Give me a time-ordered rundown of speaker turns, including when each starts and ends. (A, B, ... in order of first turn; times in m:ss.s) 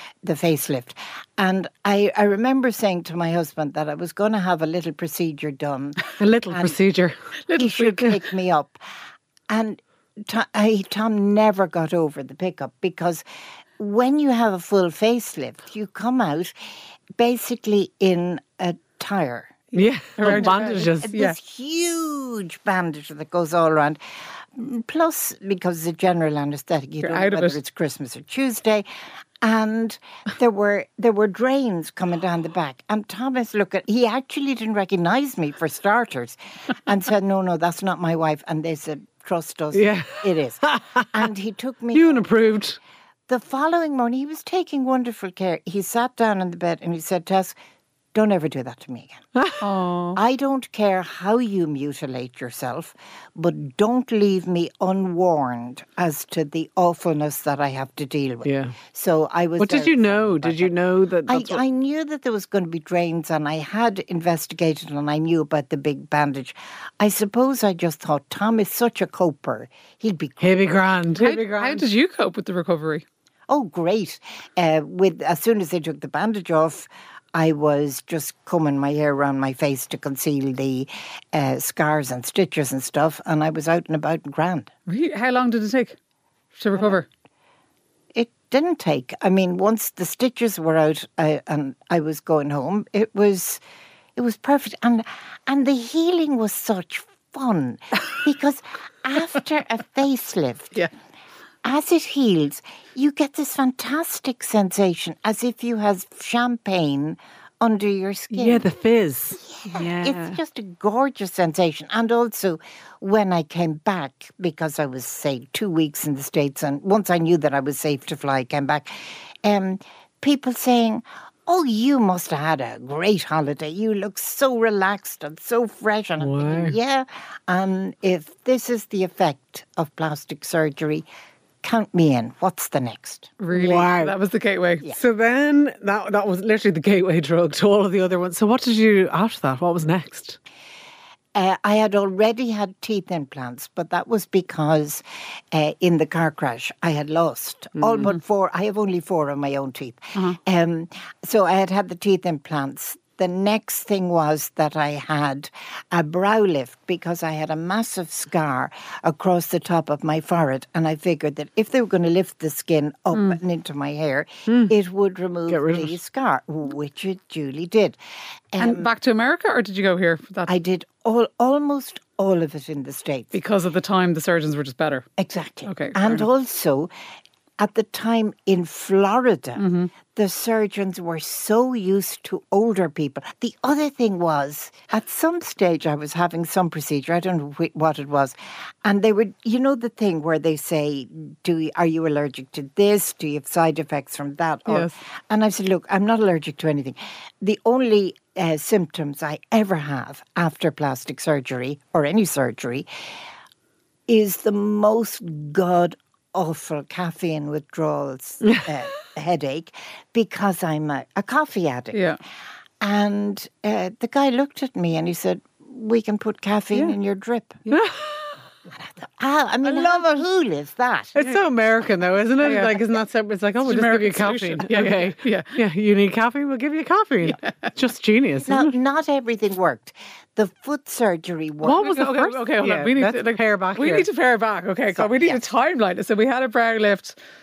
0:00.2-0:06.8 A
0:06.2-0:07.1 B
0:07.4-0:08.2 C
0:07.5-0:08.8 A
0:09.5-0:13.2 A
0:13.8-0:16.5 A
0:17.2-0:19.7 A
0:19.7-0:21.2 B
0:20.2-0:21.4 C
0:20.2-0:24.0 A
0:24.5-0:28.8 A
0:27.0-0:27.6 C
0:29.4-0:42.3 A
0:39.7-0:41.3 B
0:41.9-0:42.8 B
0:43.3-0:47.6 A
0:48.1-0:49.2 A
0:49.3-0:49.6 B
0:49.6-0:50.2 C
0:50.1-1:00.7 A
0:58.4-0:58.8 B
0:59.6-1:01.6 B
1:01.3-1:10.6 A
1:10.4-1:11.9 B
1:11.1-1:13.0 C
1:13.5-1:24.7 A
1:24.9-1:26.0 C
1:26.5-1:27.1 C
1:28.1-1:33.6 A
1:34.2-1:40.8 A
1:41.6-1:48.6 A
1:48.3-1:50.4 B
1:49.4-2:11.1 A
2:06.2-2:06.8 B
2:11.6-2:13.4 A
2:13.4-2:14.8 C
2:13.5-2:14.1 B
2:14.8-2:20.4 B
2:21.3-2:48.0 A
2:27.8-2:28.1 B
2:43.1-2:43.4 C
2:44.5-2:44.7 B
2:45.5-2:46.0 B
2:48.5-2:48.9 A
2:48.6-2:50.5 C
2:50.5-2:53.3 A
2:53.3-2:55.0 C
2:55.2-2:56.9 A
2:55.6-2:56.2 C
2:57.6-3:22.9 A
2:59.6-2:59.9 C
3:14.7-3:14.9 C
3:24.1-3:32.0 A
3:28.4-3:28.7 B
3:31.9-3:32.2 C
3:32.8-3:37.6 A
3:37.7-3:38.3 B
3:38.7-3:41.2 A
3:41.1-3:48.7 B
3:42.4-3:42.8 C
3:43.6-3:45.5 C
3:47.3-3:47.7 C
3:48.4-3:51.9 A
3:51.6-3:54.1 B
3:51.7-3:57.2 C
3:54.9-3:55.4 A